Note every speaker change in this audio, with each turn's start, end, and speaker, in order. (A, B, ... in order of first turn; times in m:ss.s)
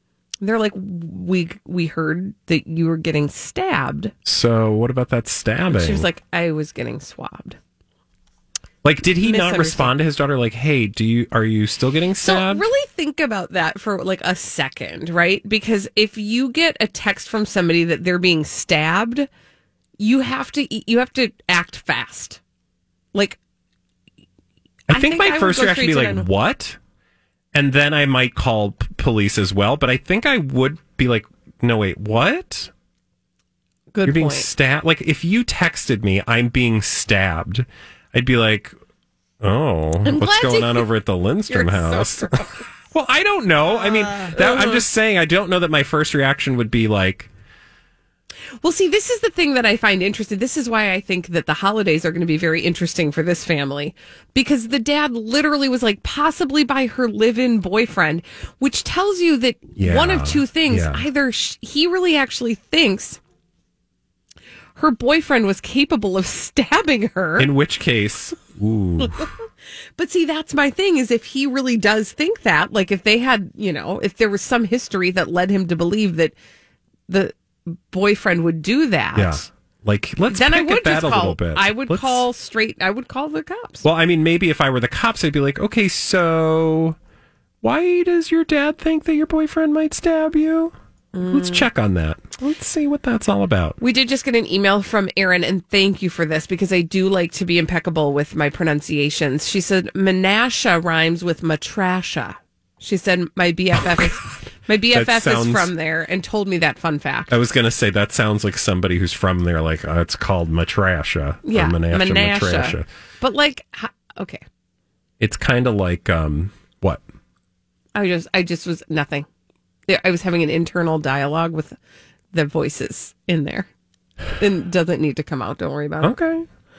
0:00.4-0:04.1 A
0:04.2-0:06.1 B
0:05.7-0:07.6 A
0:08.8-0:12.6 B
0:09.2-0:09.9 A
0:12.2-0:19.3 A
0:20.0-0:22.4 A
0:24.9-0:26.8 B
0:24.9-0:26.3 A
0:27.5-0:32.7 B
0:33.9-0:34.5 A
0:34.0-0:38.8 B
0:39.4-0:47.3 B
0:40.0-0:40.9 A
0:41.5-0:42.6 A
0:44.0-0:44.8 A
0:48.6-1:03.2 A
0:59.8-1:01.0 B
1:04.8-1:07.5 A
1:07.4-1:09.3 B
1:09.0-1:09.3 A
1:10.0-1:16.4 A
1:17.1-1:19.4 A
1:19.1-1:22.3 B
1:20.3-1:23.8 A
1:23.8-1:27.0 B
1:27.6-1:33.8 B
1:31.1-1:31.7 A
1:33.8-1:47.4 A
1:44.9-1:45.7 B
1:47.3-1:52.9 B
1:51.5-1:54.4 A
1:55.2-1:57.0 B
1:58.0-1:59.3 A
1:59.9-2:01.8 A
2:02.3-2:03.7 A
2:04.4-2:06.2 A
2:06.0-2:06.5 B